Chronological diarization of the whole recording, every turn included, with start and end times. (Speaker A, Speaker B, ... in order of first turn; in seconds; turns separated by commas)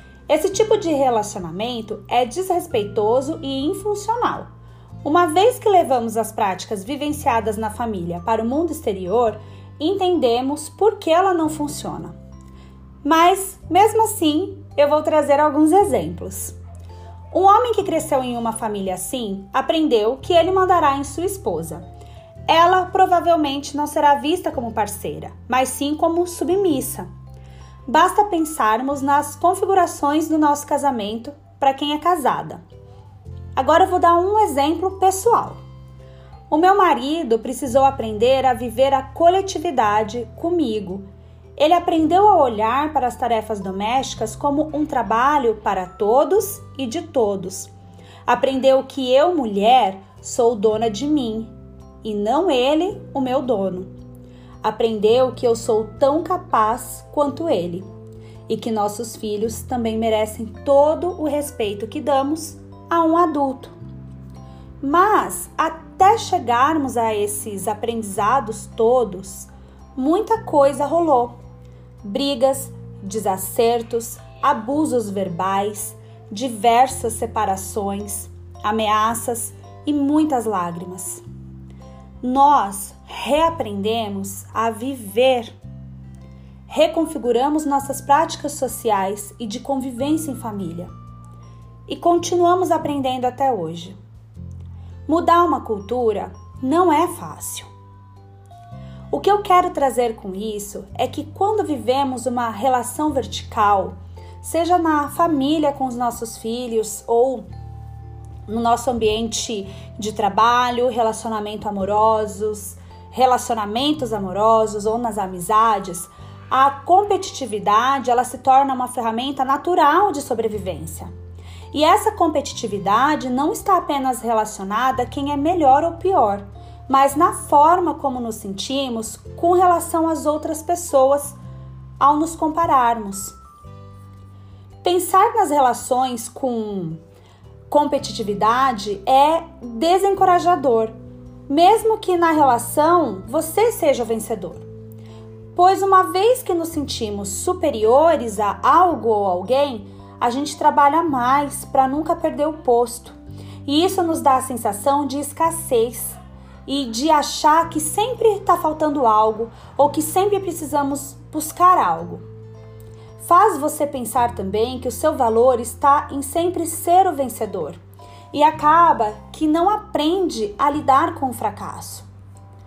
Speaker A: 0.3-4.5, Speaker A: 5.0-12.1, Speaker A: 13.0-16.6, Speaker A: 17.3-21.9, Speaker A: 22.5-27.1, Speaker A: 27.9-32.6, Speaker A: 33.5-35.6, Speaker A: 36.5-47.7, Speaker A: 48.2-51.5, Speaker A: 52.0-53.9, Speaker A: 54.6-57.9, Speaker A: 58.5-63.8, Speaker A: 64.8-71.3, Speaker A: 72.0-81.2, Speaker A: 82.2-85.5, Speaker A: 86.7-90.9, Speaker A: 91.9-94.0, Speaker A: 95.1-97.7, Speaker A: 99.1-107.5, Speaker A: 108.5-121.1, Speaker A: 121.7-131.4, Speaker A: 132.0-133.3, Speaker A: 134.8-137.0, Speaker A: 137.7-140.9, Speaker A: 141.5-144.7, Speaker A: 145.5-162.2, Speaker A: 163.2-167.8, Speaker A: 168.3-172.1